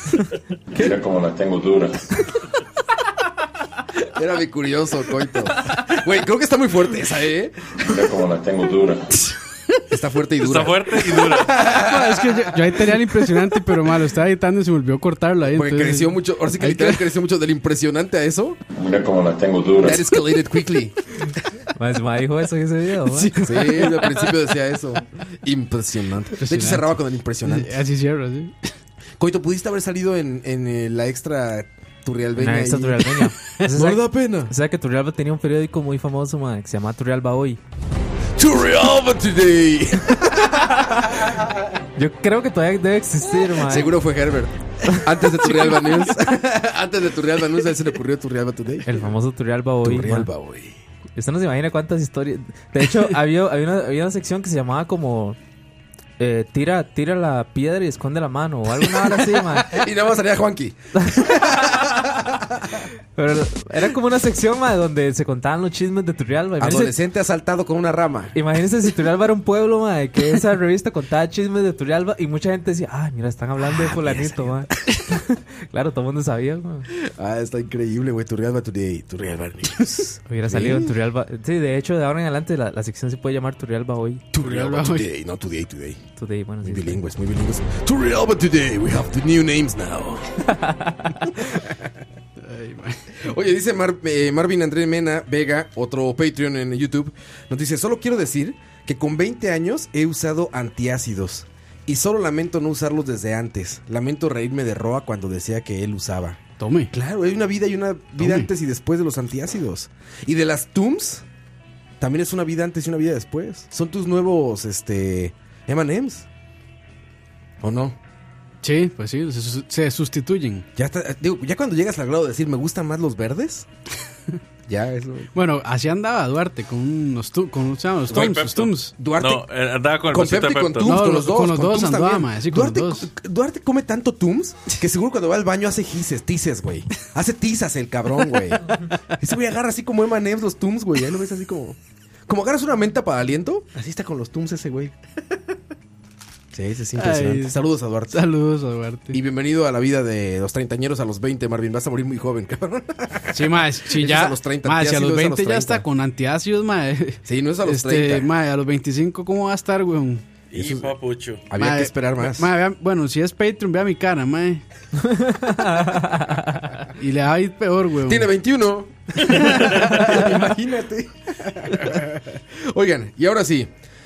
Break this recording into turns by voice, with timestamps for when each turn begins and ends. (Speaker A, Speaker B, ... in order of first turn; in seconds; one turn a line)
Speaker A: 0.7-2.0
Speaker B: 4.1-7.8
Speaker A: 7.8-9.1
Speaker B: 9.9-13.4
Speaker C: 10.4-11.6
Speaker D: 11.7-17.0
Speaker B: 15.4-18.6
Speaker A: 18.7-20.1
Speaker B: 19.8-20.9
Speaker E: 21.8-23.3
Speaker D: 23.1-24.1
Speaker B: 23.4-27.7
Speaker D: 26.4-26.9
Speaker D: 27.4-28.6
Speaker B: 29.2-34.5
Speaker E: 32.4-37.6
Speaker B: 38.4-41.5
Speaker E: 42.0-44.0
Speaker B: 43.6-49.1
Speaker E: 44.9-45.6
Speaker E: 48.9-50.3
Speaker B: 49.8-50.8
Speaker E: 51.1-55.4
Speaker E: 56.2-59.8
Speaker B: 59.3-62.9
Speaker E: 61.0-61.7
Speaker E: 63.1-66.9
Speaker B: 66.6-68.3
Speaker E: 68.3-76.9
Speaker B: 73.6-75.0
Speaker B: 76.9-80.9
Speaker E: 80.3-84.2
Speaker B: 84.3-86.0
Speaker D: 84.4-85.0
Speaker E: 86.2-87.0
Speaker B: 86.6-90.4
Speaker E: 90.5-91.1
Speaker B: 91.4-91.8
Speaker D: 92.4-93.0
Speaker B: 93.2-106.4
Speaker D: 106.6-106.9
Speaker B: 106.9-111.2
Speaker D: 108.2-108.5
Speaker B: 112.0-116.3
Speaker B: 117.6-118.0
Speaker D: 118.6-120.7
Speaker B: 120.8-123.7
Speaker B: 124.7-125.3
Speaker D: 125.3-128.9
Speaker C: 128.1-130.9
Speaker B: 129.0-129.4
Speaker B: 130.1-144.9
Speaker D: 130.8-133.1
Speaker B: 146.5-148.2
Speaker D: 147.0-149.2
Speaker B: 149.1-155.8
Speaker D: 153.3-160.2
Speaker B: 157.2-158.3
Speaker B: 160.5-160.9
Speaker C: 160.5-161.4
Speaker B: 161.4-162.5
Speaker D: 161.6-164.6
Speaker E: 165.0-166.8
Speaker D: 166.9-168.3
Speaker B: 168.0-173.7
Speaker D: 169.2-170.3